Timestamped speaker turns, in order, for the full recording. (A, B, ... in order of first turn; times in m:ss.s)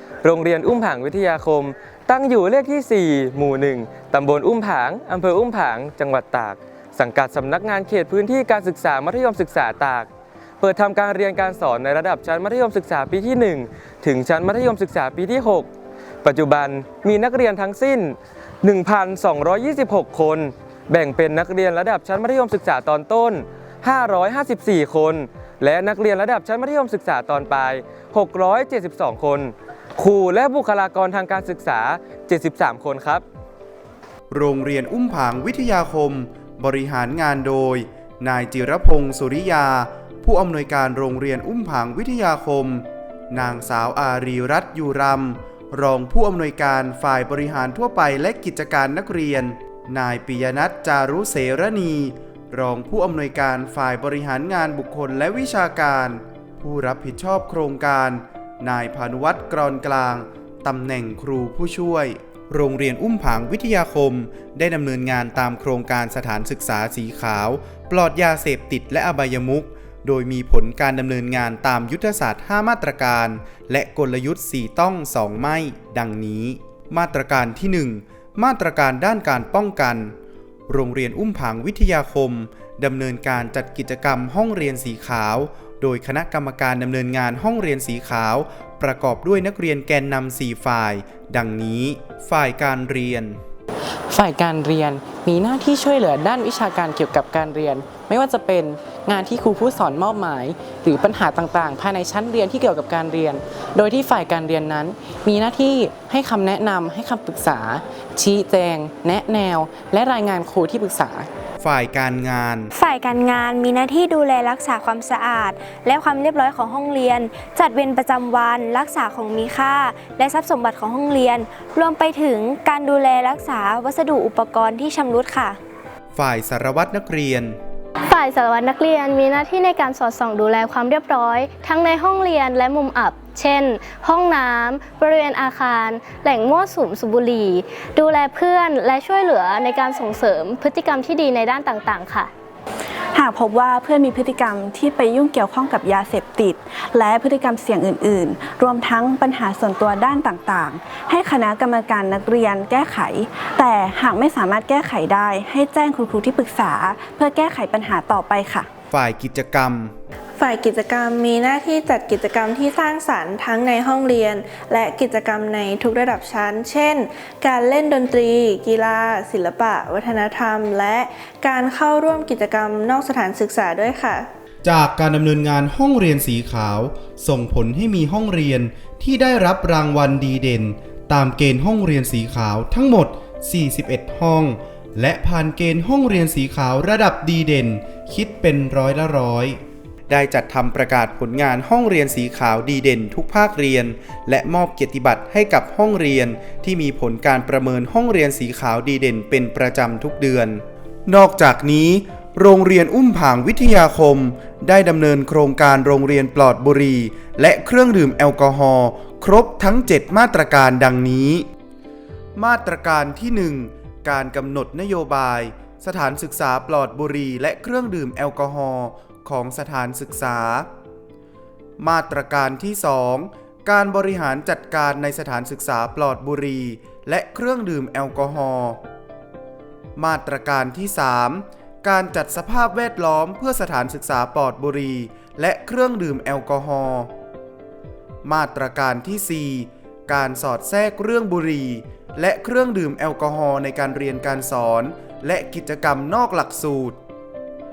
0:00.2-0:10.1 A
0:10.6-0:15.7 A
0:16.2-0:33.2 A
0:34.3-1:20.1 B
1:20.7-1:33.4 B
1:34.1-1:51.3 C
1:51.6-1:52.7 B
1:52.8-2:05.6 D
2:06.1-2:07.6 B
2:08.1-2:22.3 E
2:23.2-2:38.7 F
2:38.9-2:40.0 B
2:40.4-2:54.3 G
2:54.6-3:31.5 B
3:32.4-3:40.7 B
3:41.8-3:48.8 B
3:50.0-3:57.1 B
3:58.2-4:07.0 B